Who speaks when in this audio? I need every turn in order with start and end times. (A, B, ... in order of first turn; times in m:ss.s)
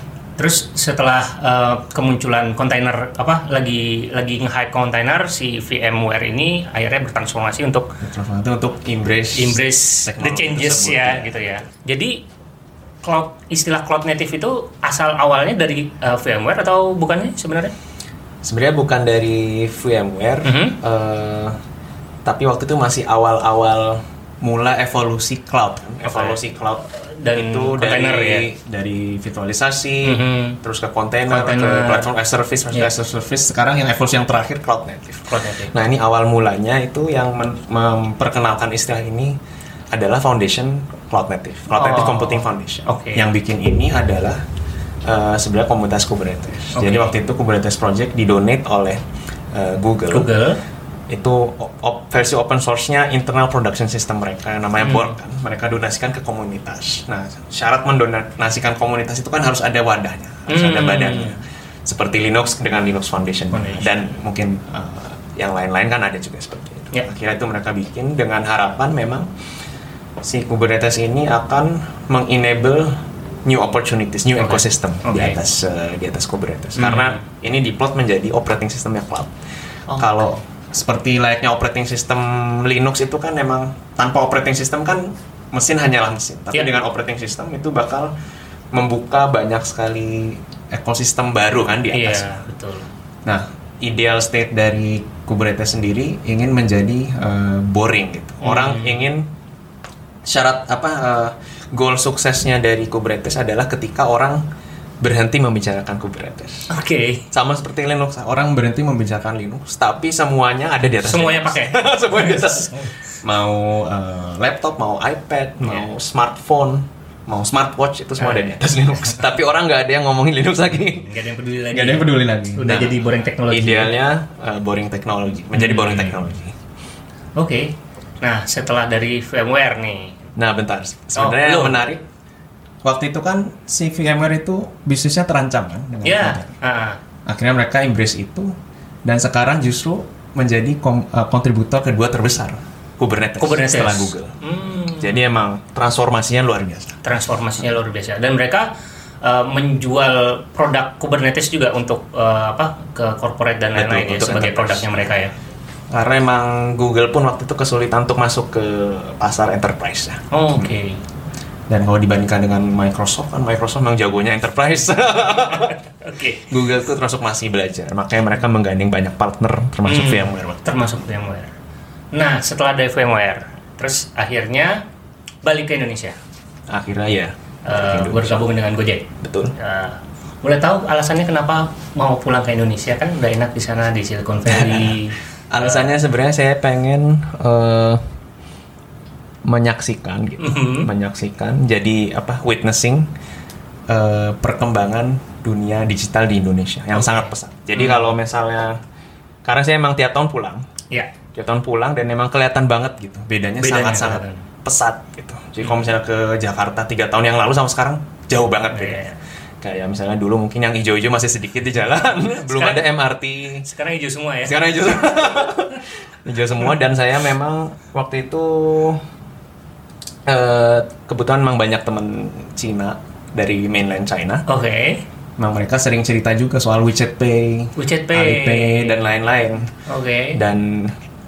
0:00.4-0:08.0 A
0:08.0-0:11.6 B
0:09.3-0:12.2 A
0:13.0-0:17.7 A
0:18.4-0:21.6 B
0:20.4-0:20.8 A
0:22.2-0:39.4 B
0:26.0-0:26.4 A
0:27.0-0:28.5 A
0:30.0-0:30.6 A
0:31.3-0:32.1 A
0:35.3-0:35.7 A
0:39.9-0:44.4 B
0:41.7-0:43.2 A
0:45.0-0:49.0 B
0:46.7-0:47.1 A
0:49.5-0:50.3 B
0:50.1-0:50.6 A
0:51.1-1:09.3 B
0:54.8-0:55.1 A
1:00.5-1:01.4 A
1:03.5-1:03.9 A
1:10.2-1:19.3 B
1:14.4-1:15.4 A
1:16.8-1:17.2 A
1:19.9-1:20.3 A
1:20.0-1:28.1 B
1:28.7-1:32.3 B
1:31.9-1:32.9 A
1:33.2-1:39.3 B
1:38.4-1:39.0 A
1:40.2-1:44.4 B
1:45.0-1:46.7 B
1:46.7-1:47.2 A
1:47.3-2:01.1 B
1:51.0-1:53.0 A
1:58.2-1:58.6 A
2:01.0-2:03.9 A
2:01.7-2:06.6 B
2:05.5-2:06.2 A
2:07.4-2:10.2 A
2:10.4-2:12.0 B
2:11.2-2:11.8 A
2:12.8-2:16.5 B
2:16.0-2:17.0 A
2:17.2-2:18.5 B
2:19.0-2:24.4 B
2:23.4-2:25.2 A
2:24.9-2:27.0 B
2:27.0-2:35.3 A
2:33.7-2:35.1 B
2:35.9-2:40.7 B
2:40.3-2:41.0 A
2:41.7-2:45.8 B
2:45.4-2:46.5 A
2:46.5-2:51.0 B
2:49.8-2:51.5 A
2:52.1-2:54.8 A
2:55.4-2:56.2 A
2:56.7-2:58.4 B
2:57.6-3:05.9 A
2:59.2-2:59.5 B
3:04.4-3:08.0 B
3:09.4-3:13.1 B
3:10.4-3:10.9 A
3:13.9-3:18.8 B
3:16.9-3:18.0 A
3:19.4-3:20.6 B
3:21.3-3:29.0 B
3:23.6-3:24.4 A
3:28.7-3:29.2 A
3:29.6-3:33.6 B
3:32.4-3:32.8 A
3:33.6-3:34.7 A
3:34.4-3:39.0 B
3:40.2-3:44.4 B
3:44.5-3:45.0 A
3:45.4-3:49.7 B
3:47.8-3:49.1 A
3:49.8-3:50.4 A
3:50.3-3:51.0 B